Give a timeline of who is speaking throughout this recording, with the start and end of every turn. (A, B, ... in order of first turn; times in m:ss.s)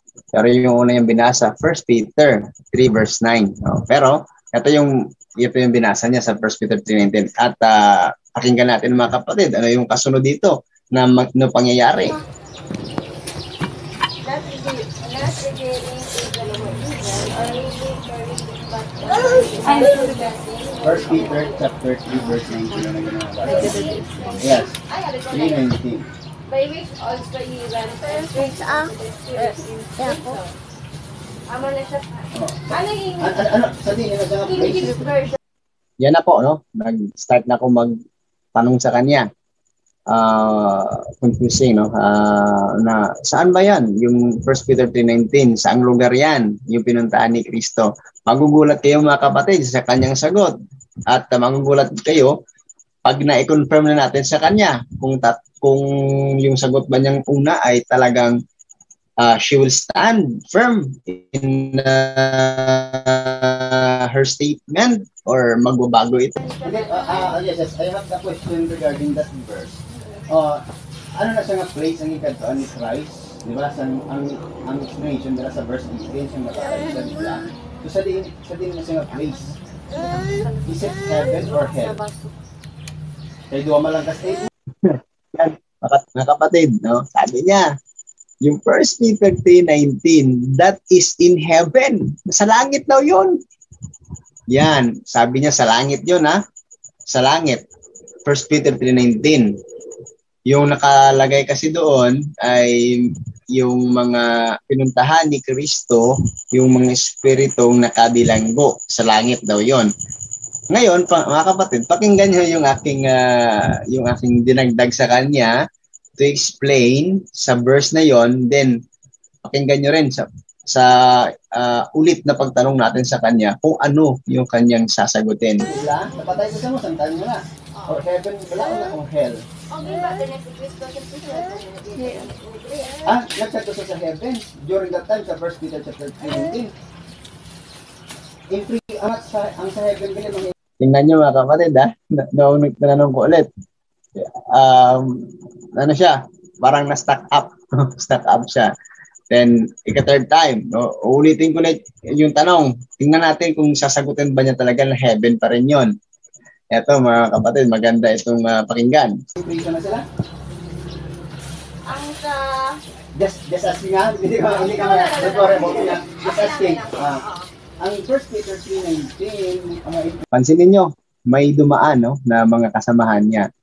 0:00.3-0:04.9 A
0:05.4-0:12.2 A
0:14.2-0:21.6 B
0:20.8-0:23.9 C
0:23.4-0:25.7 B
0:24.4-0:24.8 C
0:25.3-0:26.1 C
0:26.5-0:30.5 B
0:31.5-0:32.2 B
0:32.3-0:32.6 C
0:32.7-0:33.5 B
0:33.2-0:35.0 C
0:34.5-0:35.4 B
0:36.0-0:37.9 A
0:38.5-0:39.3 A
0:40.1-0:50.5 A
0:51.1-0:52.3 A
0:53.0-0:55.9 A
0:56.4-0:58.4 A
0:59.2-1:06.3 A
1:06.4-1:07.4 B
1:06.6-1:19.5 C
1:09.9-1:10.3 B
1:20.6-1:22.0 C
1:23.5-1:24.5 C
1:24.8-1:27.7 A
1:28.4-1:33.4 A
1:34.5-1:36.4 A
1:37.1-1:37.6 A
1:38.2-1:39.5 A
1:40.5-1:49.9 A
1:50.7-1:55.5 A
1:56.2-1:58.8 A
1:59.4-2:05.6 A
2:05.6-2:09.4 C
2:09.7-2:13.0 B
2:13.0-2:16.7 C
2:18.5-2:20.5 C
2:20.8-2:23.5 A
2:24.2-2:28.7 A
2:29.3-2:35.9 A
2:36.7-2:39.2 A
2:39.4-2:40.0 C
2:41.9-2:42.8 B
2:43.2-2:47.2 C
2:44.5-2:47.5 B
2:47.8-2:50.2 C
2:50.3-2:53.5 A